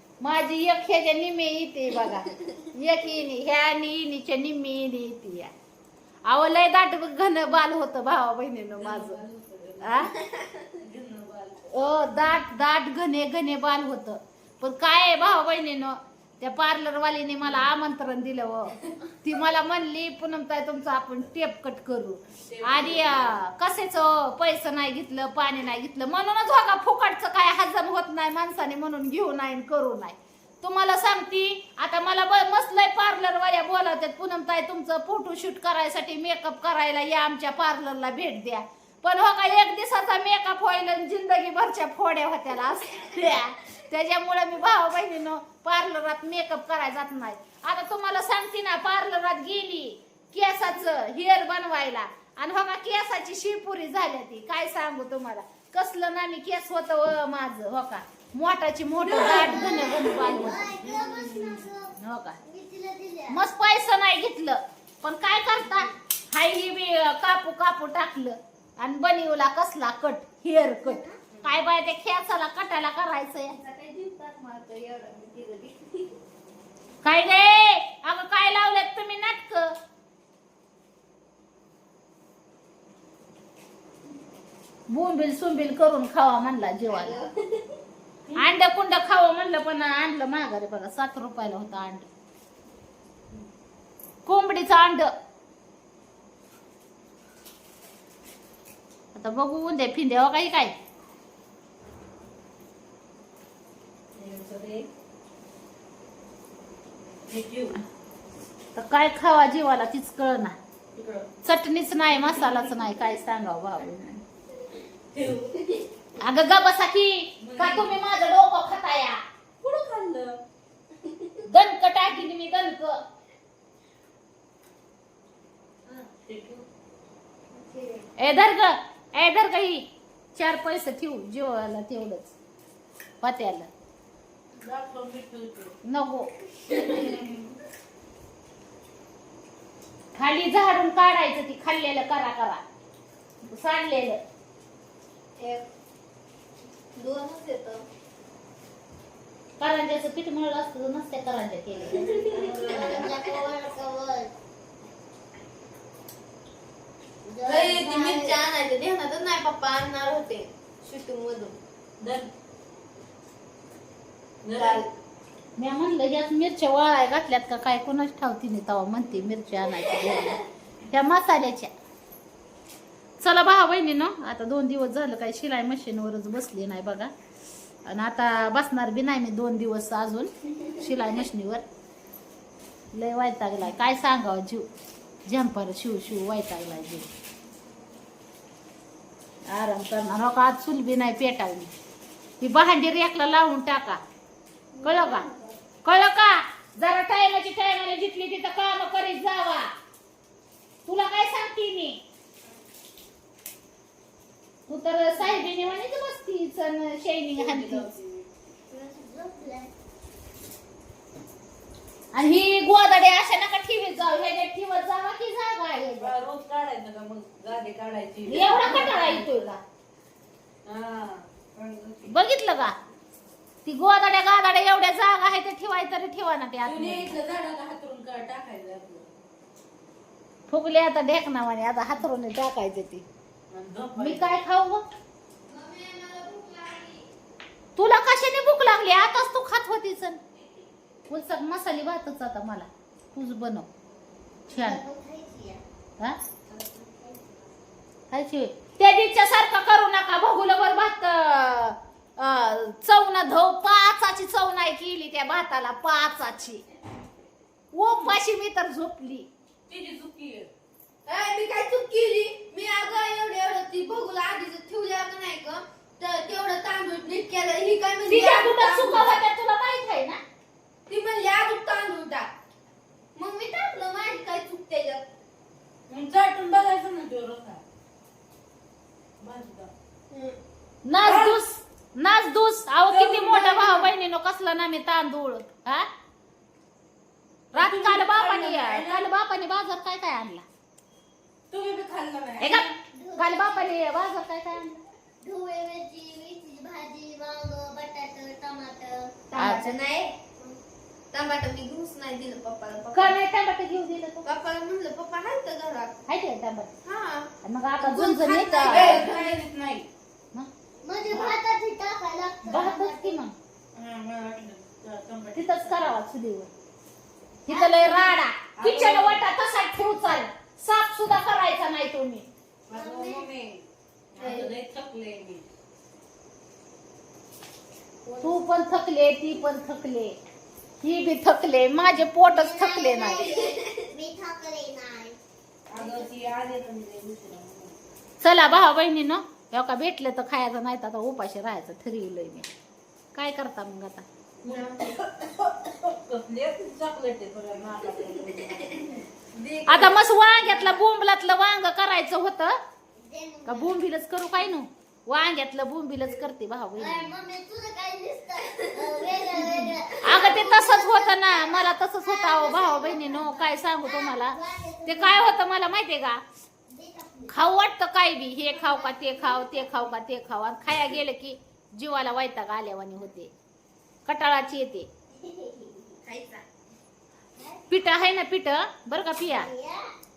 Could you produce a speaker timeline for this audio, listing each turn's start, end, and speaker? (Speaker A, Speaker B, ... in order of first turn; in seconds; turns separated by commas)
Speaker A: 0.2-5.5, Speaker A: 6.3-9.2, Speaker B: 8.8-10.1, Speaker A: 9.8-10.1, Speaker B: 10.8-11.7, Speaker A: 11.7-60.7, Speaker B: 22.5-23.4, Speaker C: 59.1-63.4, Speaker B: 59.1-61.7, Speaker A: 62.0-62.4, Speaker A: 63.3-73.5, Speaker C: 70.7-71.2, Speaker D: 73.5-76.2, Speaker A: 77.0-79.8, Speaker A: 84.9-87.2, Speaker D: 86.9-87.8, Speaker A: 88.3-92.1, Speaker A: 94.2-95.1, Speaker A: 99.1-100.8, Speaker B: 104.2-104.9, Speaker B: 107.3-107.8, Speaker A: 108.8-110.6, Speaker B: 111.0-111.3, Speaker A: 111.4-114.2, Speaker B: 112.2-112.6, Speaker B: 115.1-115.8, Speaker A: 116.2-119.2, Speaker B: 117.4-118.0, Speaker B: 119.6-120.4, Speaker A: 121.4-123.0, Speaker B: 125.9-126.7, Speaker D: 127.5-128.1, Speaker A: 128.2-132.3, Speaker A: 133.2-133.7, Speaker B: 134.6-135.7, Speaker A: 135.8-136.3, Speaker D: 136.7-137.4, Speaker A: 140.2-142.6, Speaker A: 143.4-144.2, Speaker D: 145.4-145.7, Speaker D: 146.9-147.8, Speaker A: 149.6-152.3, Speaker D: 152.0-153.3, Speaker B: 152.0-153.1, Speaker C: 152.1-154.3, Speaker C: 157.2-158.4, Speaker D: 157.5-161.6, Speaker B: 162.0-162.3, Speaker B: 164.4-164.8, Speaker D: 164.5-164.9, Speaker A: 165.6-171.7, Speaker A: 173.2-177.1, Speaker A: 177.9-181.6, Speaker A: 182.9-184.7, Speaker A: 185.2-187.1, Speaker A: 189.5-191.7, Speaker A: 192.4-194.0, Speaker A: 194.8-195.3, Speaker D: 194.8-195.5, Speaker A: 195.8-199.7, Speaker A: 200.9-202.0, Speaker A: 204.7-207.9, Speaker B: 207.4-208.3, Speaker C: 208.7-209.7, Speaker A: 212.1-216.1, Speaker B: 216.0-219.5, Speaker A: 218.2-219.6, Speaker B: 220.7-222.1, Speaker A: 222.1-222.8, Speaker A: 223.7-227.2, Speaker B: 226.6-229.1, Speaker A: 230.5-233.1, Speaker B: 233.5-234.3, Speaker A: 234.0-234.8, Speaker C: 235.5-236.7, Speaker D: 235.9-237.0, Speaker A: 237.8-240.2, Speaker A: 241.1-243.7, Speaker C: 244.5-245.6, Speaker A: 244.5-244.8, Speaker C: 246.7-247.2, Speaker A: 248.1-256.6, Speaker A: 257.7-259.3, Speaker B: 259.7-260.5, Speaker D: 261.1-269.2, Speaker A: 268.1-270.2, Speaker D: 270.9-272.3, Speaker D: 273.2-275.1, Speaker B: 275.9-277.6, Speaker B: 279.2-279.7, Speaker D: 280.1-280.4, Speaker A: 280.8-285.9, Speaker B: 281.0-281.4, Speaker B: 282.9-283.8, Speaker A: 287.5-290.4, Speaker B: 287.6-289.1, Speaker B: 291.5-292.7, Speaker A: 292.4-294.8, Speaker C: 292.9-293.9, Speaker C: 295.2-299.1, Speaker D: 299.3-300.2, Speaker A: 299.4-299.8, Speaker D: 301.1-303.2, Speaker A: 302.9-304.3, Speaker D: 304.2-305.9, Speaker A: 306.1-306.7, Speaker D: 306.8-309.4, Speaker A: 307.4-309.1, Speaker B: 308.6-309.9, Speaker C: 310.8-313.2, Speaker A: 312.4-313.3, Speaker B: 313.8-315.9, Speaker A: 315.3-316.5, Speaker A: 317.5-322.3, Speaker C: 317.5-318.1, Speaker B: 318.6-319.2, Speaker B: 322.7-325.4, Speaker C: 322.7-323.3, Speaker D: 324.2-324.5, Speaker A: 328.2-330.2, Speaker A: 330.8-333.3, Speaker C: 332.3-335.2, Speaker D: 333.2-333.6, Speaker B: 335.7-337.8, Speaker D: 335.8-336.1, Speaker A: 338.2-342.5, Speaker A: 343.1-344.1, Speaker B: 344.4-349.9, Speaker D: 344.5-344.9, Speaker A: 349.7-352.6, Speaker D: 349.8-350.8, Speaker C: 353.0-353.8, Speaker A: 353.4-357.1, Speaker C: 356.8-365.4, Speaker D: 358.6-359.5, Speaker A: 360.0-366.2, Speaker C: 366.7-367.3, Speaker A: 367.3-373.3, Speaker C: 368.5-369.9, Speaker A: 374.1-374.9, Speaker C: 375.1-376.0, Speaker D: 376.0-376.4, Speaker C: 377.4-377.7, Speaker A: 377.7-379.5, Speaker C: 379.3-379.9